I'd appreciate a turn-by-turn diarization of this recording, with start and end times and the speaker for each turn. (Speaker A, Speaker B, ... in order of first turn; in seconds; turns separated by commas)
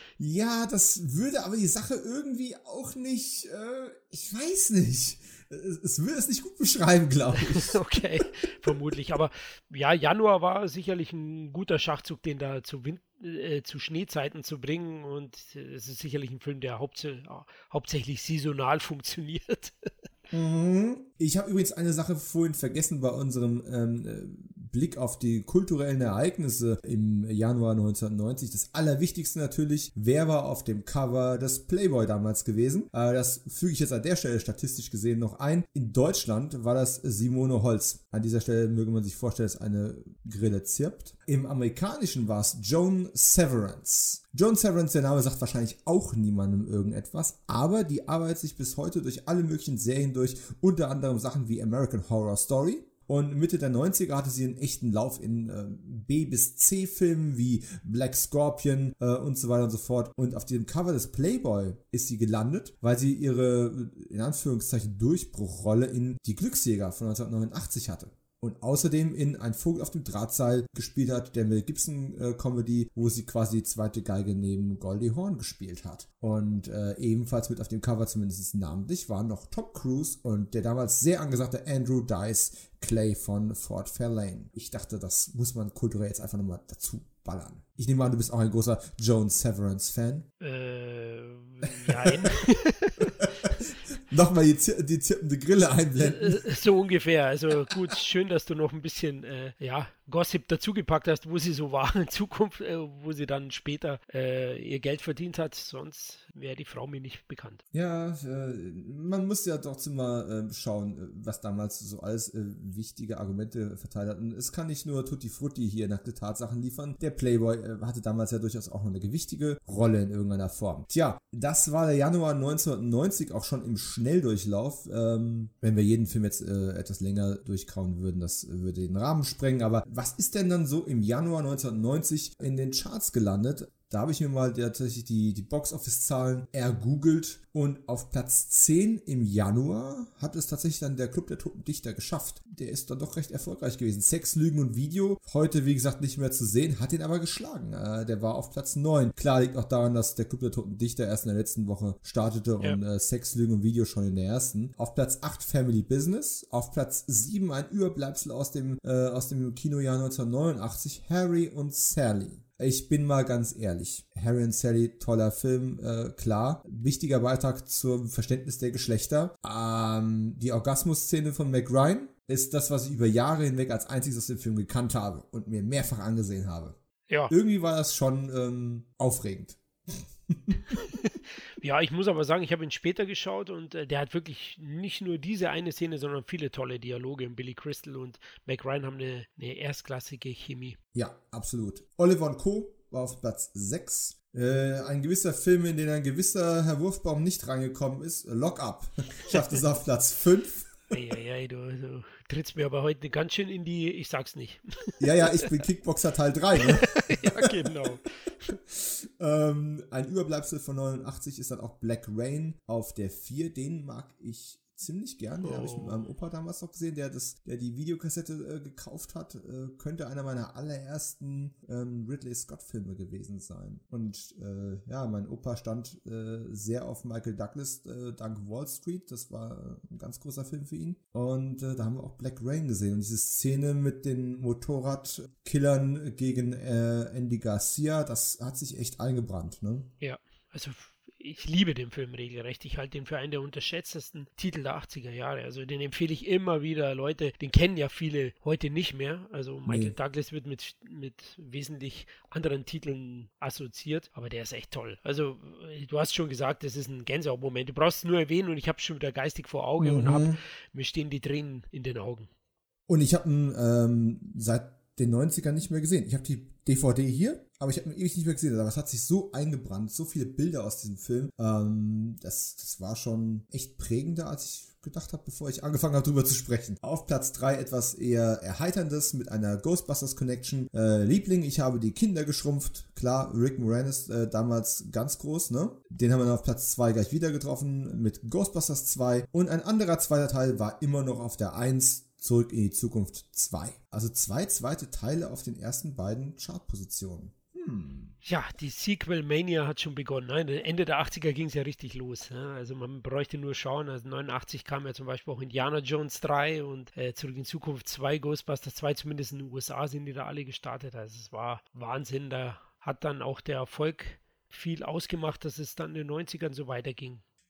Speaker A: 0.2-7.8, Speaker B: 7.4-19.9, Speaker A: 20.3-90.3, Speaker B: 90.4-93.5, Speaker A: 91.9-92.2, Speaker A: 93.2-96.5, Speaker B: 96.0-107.6, Speaker A: 107.7-176.8, Speaker A: 177.3-180.8, Speaker B: 180.7-190.8, Speaker A: 190.9-200.9, Speaker B: 200.9-205.6, Speaker A: 205.0-208.0, Speaker B: 206.6-208.6, Speaker A: 208.7-239.9, Speaker B: 215.4-216.1, Speaker B: 240.0-262.3, Speaker A: 249.7-249.9, Speaker A: 259.8-260.4, Speaker A: 262.9-298.1, Speaker B: 298.2-317.2